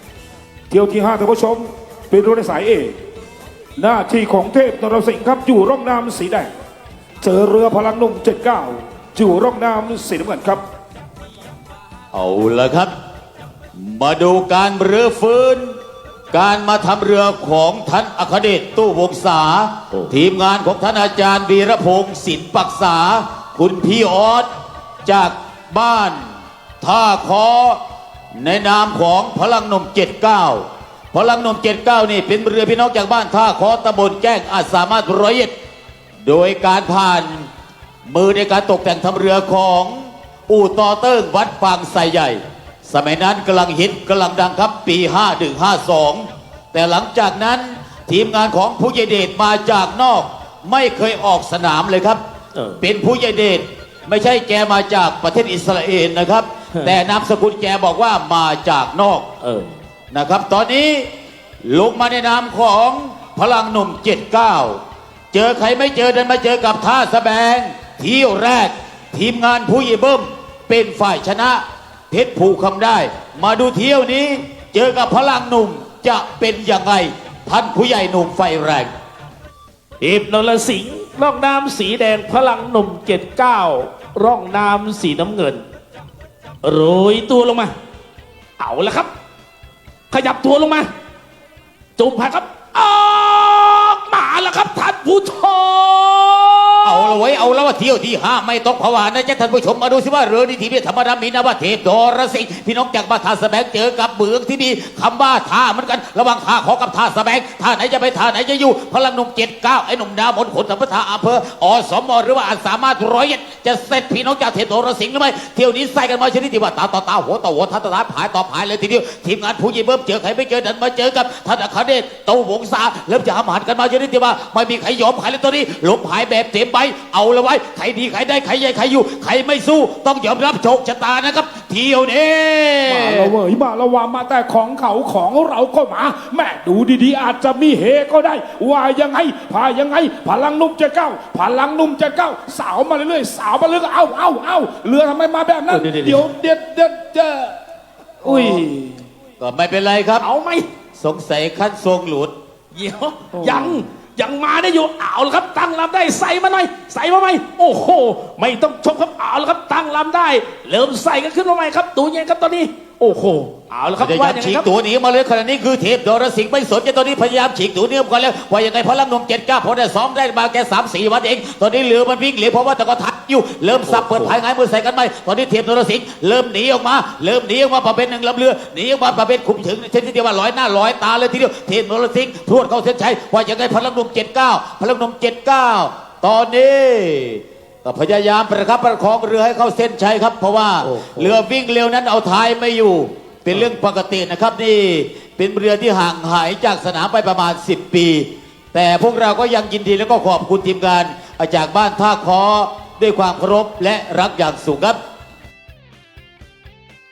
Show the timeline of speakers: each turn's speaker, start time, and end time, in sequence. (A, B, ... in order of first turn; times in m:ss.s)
0:00.7-0:03.0 A
0:03.8-0:06.5 A
0:07.2-0:10.6 A
0:12.1-0:12.9 B
0:13.8-0:15.8 B
0:16.3-0:24.5 B
0:25.0-0:26.3 B
0:26.8-0:27.8 B
0:28.3-0:35.5 B
0:36.2-0:37.5 B
0:38.1-0:52.2 B
0:52.6-0:52.8 C
0:52.8-0:59.3 B
0:59.4-0:59.7 C
1:00.1-1:01.1 B
1:01.6-1:04.8 B
1:05.3-1:18.9 B
1:20.0-1:25.6 C
1:26.6-1:27.7 C
1:28.6-1:29.1 C
1:30.1-1:30.9 C
1:32.0-1:37.2 C
1:36.8-2:13.4 B
2:12.9-2:27.6 A
2:25.7-2:26.3 C
2:28.2-2:29.0 A
2:28.2-2:28.7 C
2:29.4-2:30.3 B
2:30.2-2:30.7 C
2:31.0-2:32.3 B
2:32.7-2:44.7 C
2:33.4-2:33.8 A
2:44.0-3:25.0 B
2:53.9-2:54.4 C
3:10.8-3:11.4 C